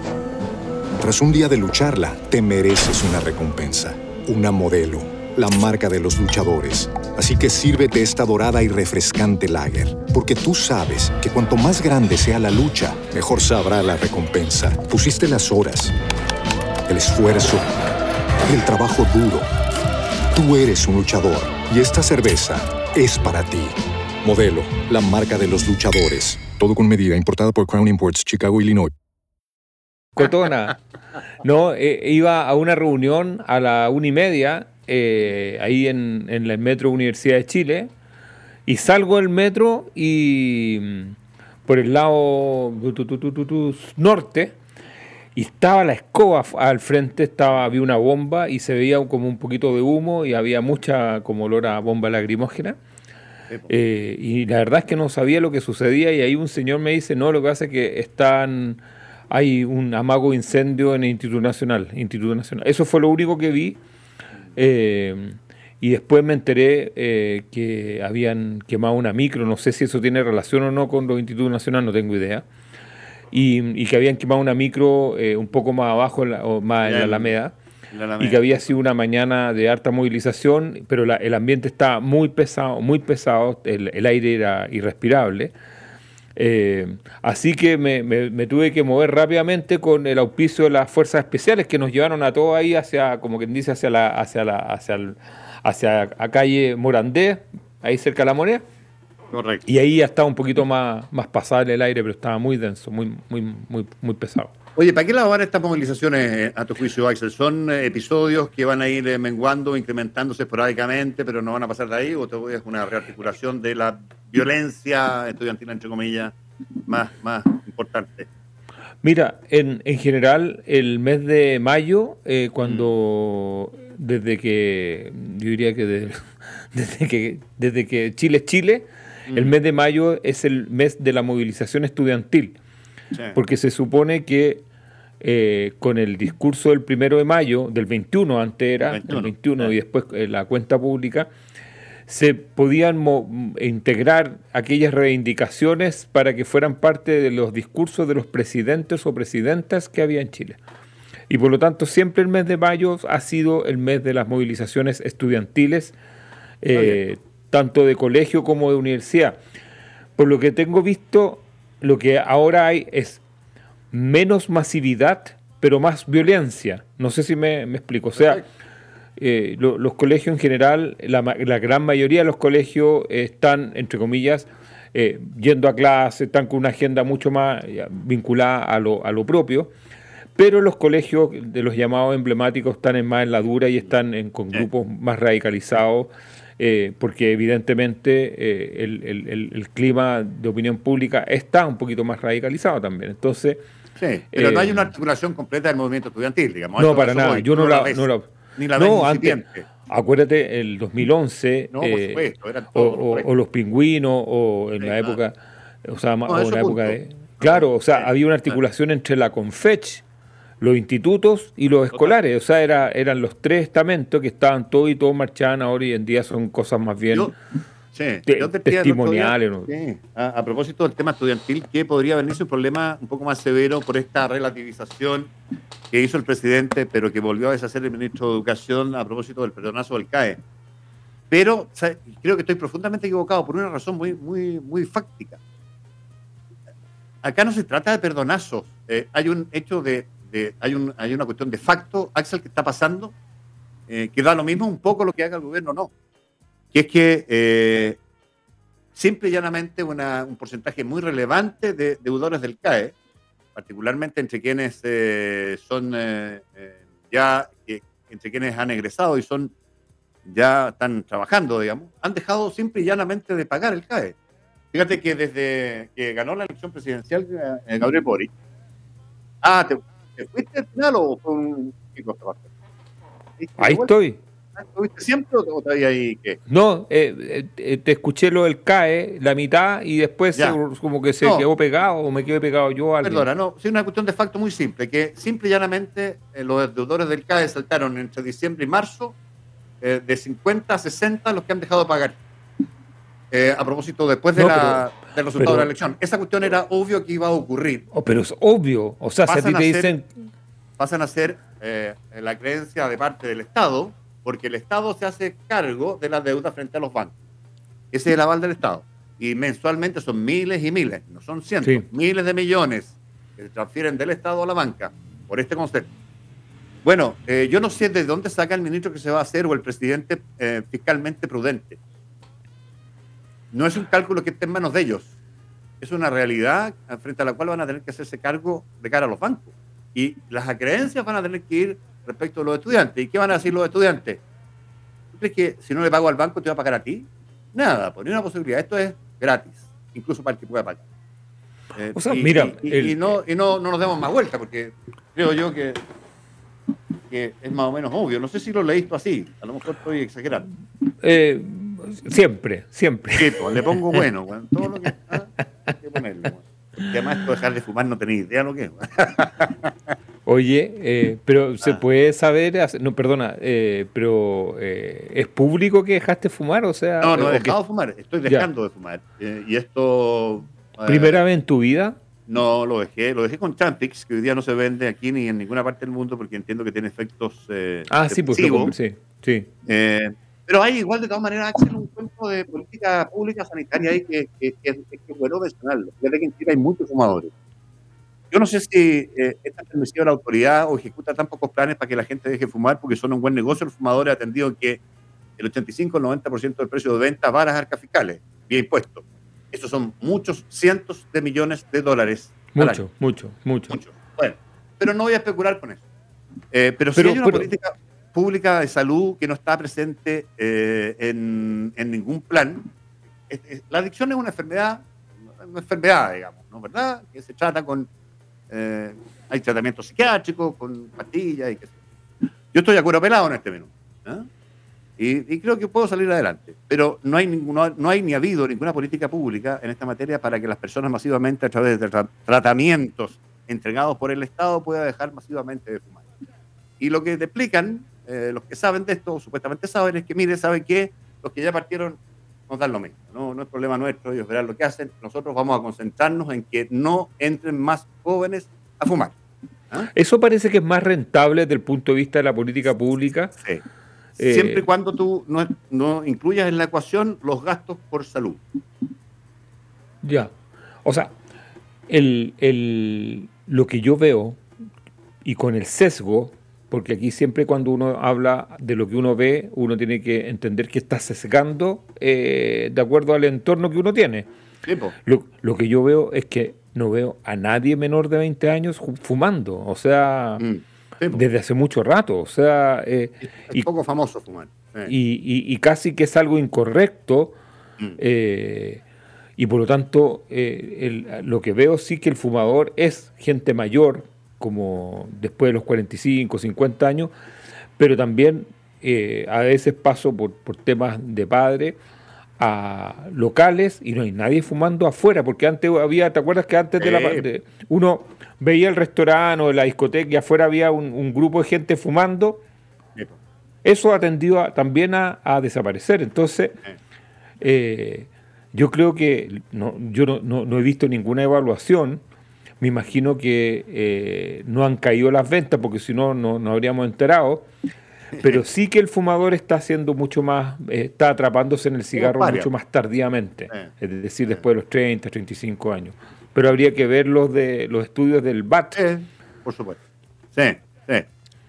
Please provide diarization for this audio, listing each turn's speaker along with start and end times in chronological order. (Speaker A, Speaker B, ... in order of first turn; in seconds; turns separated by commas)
Speaker A: 1.0-15.9, Speaker A: 16.9-17.7, Speaker A: 18.5-19.5, Speaker A: 20.3-28.9, Speaker B: 30.1-30.8, Speaker B: 31.4-37.9, Speaker B: 38.6-44.6, Speaker B: 45.3-52.8, Speaker B: 53.7-63.8, Speaker B: 64.5-72.4, Speaker B: 73.3-77.5, Speaker C: 76.8-77.3, Speaker C: 77.9-78.5, Speaker B: 78.2-85.5, Speaker B: 86.3-98.6, Speaker C: 99.3-99.6, Speaker B: 99.7-104.5, Speaker C: 104.8-118.3, Speaker B: 119.0-132.6, Speaker C: 129.3-129.5, Speaker B: 133.3-134.6, Speaker B: 135.2-141.3, Speaker C: 138.9-139.7, Speaker B: 142.1-150.6, Speaker B: 151.3-155.9, Speaker B: 156.6-159.4, Speaker B: 160.2-163.2, Speaker B: 163.9-168.4, Speaker B: 169.2-179.7, Speaker B: 180.3-193.6, Speaker C: 194.0-198.0, Speaker B: 194.3-194.9, Speaker B: 196.8-210.0, Speaker C: 198.6-199.7, Speaker C: 201.7-203.2, Speaker C: 204.8-205.2, Speaker C: 206.3-208.6, Speaker B: 210.6-217.3, Speaker C: 217.9-225.3, Speaker B: 218.3-219.7, Speaker C: 225.9-230.4, Speaker C: 231.3-235.4, Speaker C: 237.2-243.1, Speaker C: 243.9-245.9, Speaker C: 246.7-248.0, Speaker C: 248.9-252.9, Speaker C: 253.5-259.5, Speaker C: 260.2-264.1, Speaker C: 264.7-268.3, Speaker C: 269.4-272.4, Speaker C: 273.4-273.9, Speaker B: 273.6-274.2, Speaker C: 274.6-276.4, Speaker B: 276.5-283.3, Speaker C: 283.0-289.1, Speaker C: 289.8-292.2, Speaker C: 293.3-297.8, Speaker B: 294.4-294.8, Speaker B: 295.4-295.7, Speaker B: 297.9-300.1, Speaker C: 299.3-299.9, Speaker C: 300.8-307.1, Speaker C: 307.9-315.9, Speaker C: 316.8-321.8, Speaker C: 323.5-325.1, Speaker C: 325.8-334.2, Speaker C: 335.1-340.8, Speaker C: 341.7-345.8, Speaker B: 341.9-343.1, Speaker C: 347.1-350.5, Speaker B: 350.9-354.0, Speaker C: 353.1-359.9, Speaker B: 360.2-367.5, Speaker C: 367.0-371.2, Speaker B: 370.9-371.9, Speaker C: 372.3-378.7, Speaker B: 377.9-379.5, Speaker C: 379.7-387.3, Speaker C: 388.3-394.8, Speaker C: 395.4-402.8, Speaker B: 402.5-403.8, Speaker C: 403.7-405.8, Speaker C: 406.5-412.7, Speaker B: 406.9-407.5, Speaker C: 413.3-414.9, Speaker C: 415.4-417.9, Speaker C: 418.5-421.7, Speaker C: 422.5-424.3, Speaker C: 425.0-436.0, Speaker C: 436.8-442.0, Speaker C: 442.5-449.1, Speaker B: 449.9-453.3, Speaker B: 454.2-454.6, Speaker C: 454.2-458.4, Speaker B: 460.0-460.3, Speaker B: 460.8-461.1, Speaker B: 461.9-464.4, Speaker B: 465.2-474.3, Speaker C: 474.6-474.9, Speaker B: 475.0-480.4, Speaker C: 480.4-481.2, Speaker B: 481.1-483.7, Speaker C: 483.5-484.9, Speaker B: 484.9-487.4, Speaker B: 488.0-488.8, Speaker B: 489.4-497.1, Speaker B: 497.8-501.8, Speaker B: 502.4-512.4, Speaker C: 506.8-507.2, Speaker B: 513.6-516.6, Speaker B: 517.4-522.0, Speaker B: 522.6-527.5, Speaker B: 528.1-538.8, Speaker C: 532.0-532.5, Speaker C: 538.7-539.8, Speaker C: 540.3-541.1